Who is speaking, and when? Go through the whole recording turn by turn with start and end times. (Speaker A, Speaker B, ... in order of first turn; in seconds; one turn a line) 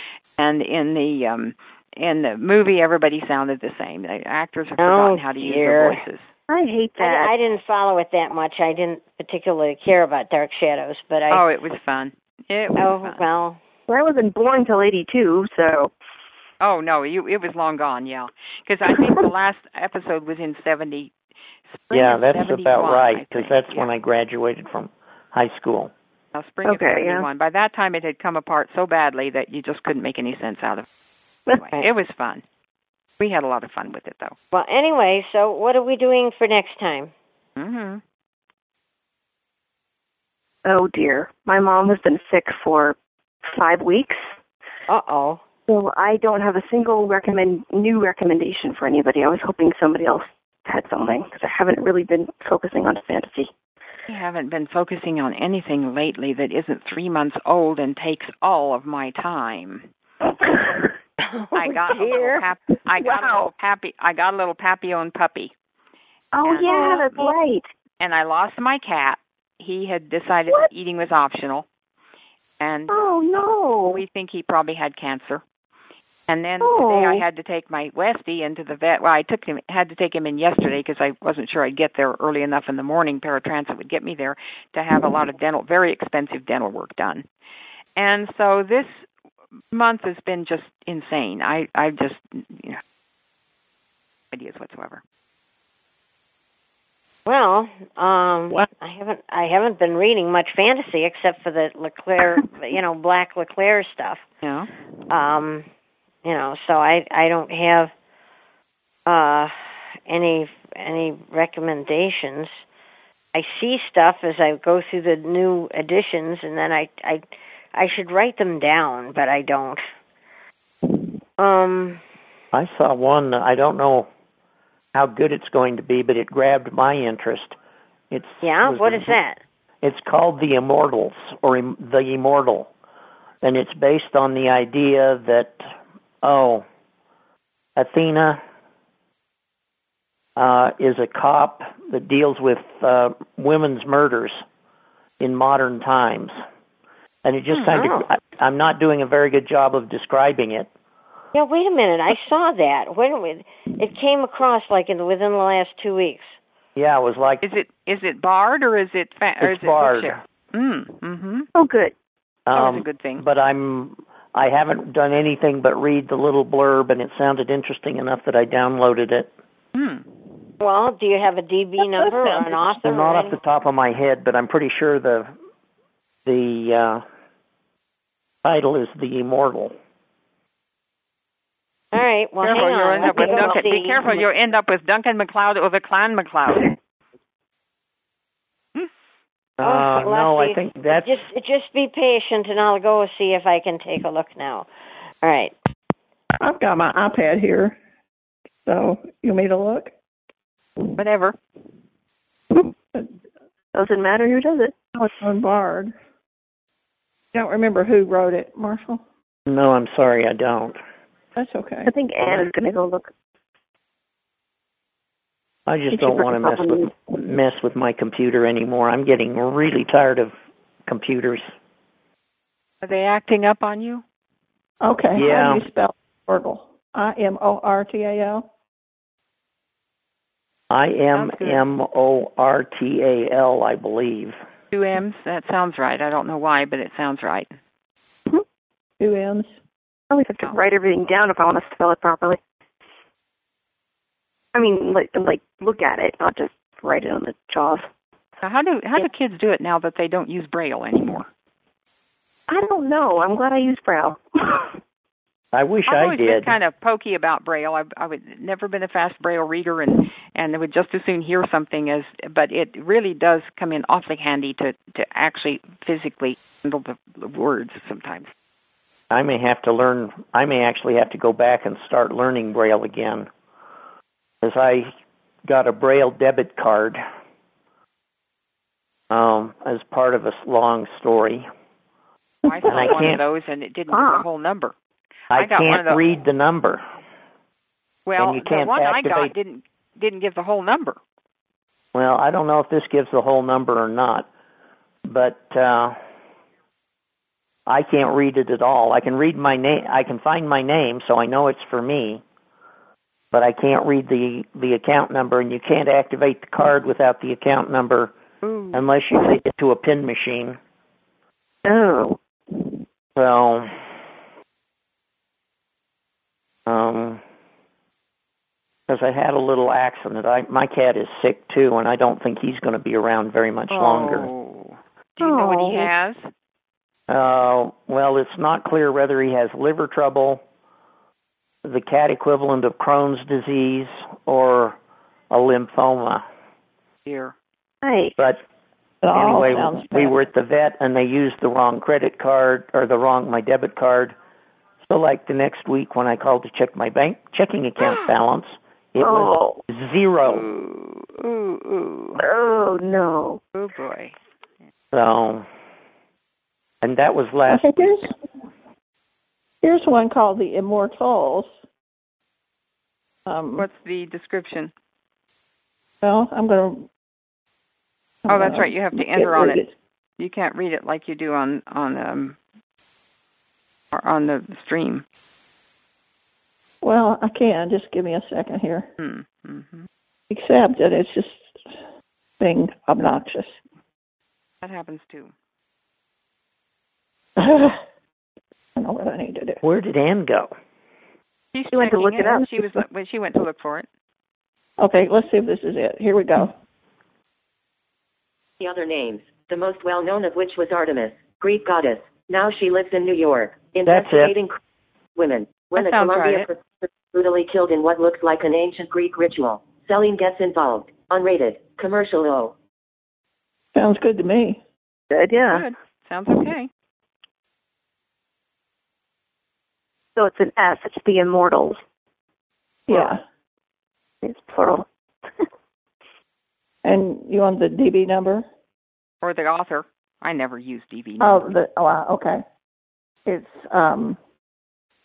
Speaker A: 0.4-6.3
Speaker B: 4.8-6.0
Speaker C: 6.5-7.3
Speaker B: 7.0-11.4
Speaker A: 11.3-13.2
Speaker B: 12.8-13.6
Speaker C: 13.9-15.9
Speaker A: 16.6-21.1
Speaker A: 21.7-23.9
Speaker D: 21.9-25.9
Speaker A: 26.3-30.9
Speaker C: 26.6-27.2
Speaker A: 31.5-32.4
Speaker A: 33.2-34.4
Speaker B: 34.5-37.1
Speaker A: 37.6-38.0
Speaker C: 40.6-44.3
Speaker B: 44.9-45.4
Speaker C: 45.7-53.5
Speaker A: 54.1-59.9
Speaker C: 60.4-60.9
Speaker B: 61.2-62.5
Speaker A: 61.5-65.5
Speaker C: 63.0-63.5
Speaker C: 66.3-67.7
Speaker A: 66.4-67.1
Speaker B: 66.6-67.0
Speaker A: 68.0-71.7
Speaker A: 72.6-73.0
Speaker C: 72.9-74.0
Speaker A: 73.9-75.4
Speaker A: 76.3-87.2
Speaker C: 76.6-77.2
Speaker A: 88.0-89.0
Speaker A: 89.7-92.8
Speaker A: 94.3-95.0
Speaker B: 97.2-104.2
Speaker A: 104.4-104.7
Speaker B: 105.1-105.7
Speaker B: 106.2-107.9
Speaker B: 109.0-112.6
Speaker B: 113.3-119.8
Speaker B: 121.4-122.0
Speaker D: 122.5-124.1
Speaker D: 124.9-127.6
Speaker D: 128.1-129.1
Speaker B: 128.4-129.4
Speaker D: 129.8-132.7
Speaker D: 133.4-135.7
Speaker D: 136.2-136.6
Speaker D: 137.8-138.4
Speaker D: 140.3-144.4
Speaker D: 145.2-146.3
Speaker D: 147.2-150.7
Speaker A: 147.5-147.9
Speaker B: 147.7-148.1
Speaker B: 151.3-156.4
Speaker D: 156.8-157.4
Speaker A: 157.4-161.5
Speaker D: 159.4-160.2
Speaker C: 161.5-161.9
Speaker D: 162.5-169.3
Speaker A: 162.5-163.2
Speaker A: 169.7-170.1
Speaker B: 170.6-173.3
Speaker E: 171.9-172.8
Speaker D: 172.8-175.3
Speaker D: 176.2-177.0
Speaker D: 178.4-179.7
Speaker B: 181.9-184.2
Speaker A: 182.4-186.7
Speaker C: 183.1-183.7
Speaker D: 189.6-191.2
Speaker B: 189.6-194.7
Speaker B: 195.2-195.5
Speaker E: 196.4-197.8
Speaker E: 198.6-199.9
Speaker A: 200.9-201.3
Speaker C: 203.7-204.8
Speaker E: 204.9-205.9
Speaker E: 207.3-209.0
Speaker D: 209.5-210.8
Speaker E: 211.3-211.9
Speaker C: 211.8-213.1
Speaker D: 215.7-220.3
Speaker C: 215.9-216.9
Speaker D: 220.9-221.5
Speaker A: 222.8-224.0
Speaker E: 224.8-228.4
Speaker D: 225.1-225.6
Speaker D: 230.7-234.3
Speaker A: 231.1-231.6
Speaker A: 234.7-237.6
Speaker E: 239.0-239.5
Speaker C: 240.1-242.4
Speaker C: 244.5-247.9
Speaker A: 248.4-251.3
Speaker C: 252.5-254.8
Speaker D: 255.5-256.6
Speaker A: 255.9-268.3
Speaker D: 269.1-273.3
Speaker D: 274.4-274.9
Speaker D: 275.4-277.0
Speaker D: 279.1-281.4
Speaker A: 282.4-284.7
Speaker E: 282.5-282.9
Speaker D: 282.7-283.2
Speaker C: 283.9-284.2
Speaker D: 285.3-286.8
Speaker A: 285.3-286.0
Speaker A: 288.1-291.0
Speaker D: 288.2-289.3
Speaker D: 291.9-294.3
Speaker D: 295.0-296.0
Speaker D: 297.7-302.2
Speaker D: 303.3-308.1
Speaker D: 308.7-310.6
Speaker C: 311.6-312.8
Speaker D: 313.1-313.8
Speaker D: 316.6-317.2
Speaker D: 318.9-324.3
Speaker A: 323.7-326.3
Speaker C: 325.2-325.9
Speaker D: 327.1-330.4
Speaker D: 331.6-334.8
Speaker D: 335.3-336.2
Speaker A: 337.0-337.3
Speaker C: 337.8-338.1
Speaker E: 339.0-340.1
Speaker D: 339.1-344.1
Speaker D: 344.9-350.5
Speaker C: 349.0-349.6
Speaker A: 350.2-352.2
Speaker C: 352.2-353.4
Speaker A: 353.5-354.1
Speaker D: 354.9-355.4
Speaker D: 356.8-357.6
Speaker E: 357.5-358.1
Speaker E: 359.6-361.5
Speaker E: 363.2-363.7
Speaker A: 363.6-364.7
Speaker E: 366.0-366.9
Speaker E: 368.2-369.7
Speaker A: 368.3-369.6
Speaker A: 370.2-372.4
Speaker A: 373.9-375.0
Speaker E: 376.8-378.9
Speaker A: 379.0-379.9
Speaker E: 380.3-381.6
Speaker E: 382.4-383.6
Speaker A: 384.6-385.3
Speaker E: 387.4-387.8
Speaker E: 388.8-389.6
Speaker D: 389.6-390.5
Speaker A: 391.5-393.9
Speaker C: 391.7-392.8
Speaker E: 394.8-396.5
Speaker F: 398.6-404.6
Speaker D: 403.8-404.4
Speaker F: 405.1-412.5
Speaker A: 405.7-406.5
Speaker E: 413.7-414.6
Speaker C: 415.1-415.6
Speaker A: 415.5-416.7
Speaker C: 420.1-421.8
Speaker E: 422.9-423.2
Speaker C: 422.9-423.1
Speaker C: 424.2-424.9
Speaker E: 426.8-428.4
Speaker A: 429.2-431.5
Speaker E: 431.2-432.4
Speaker E: 433.2-434.2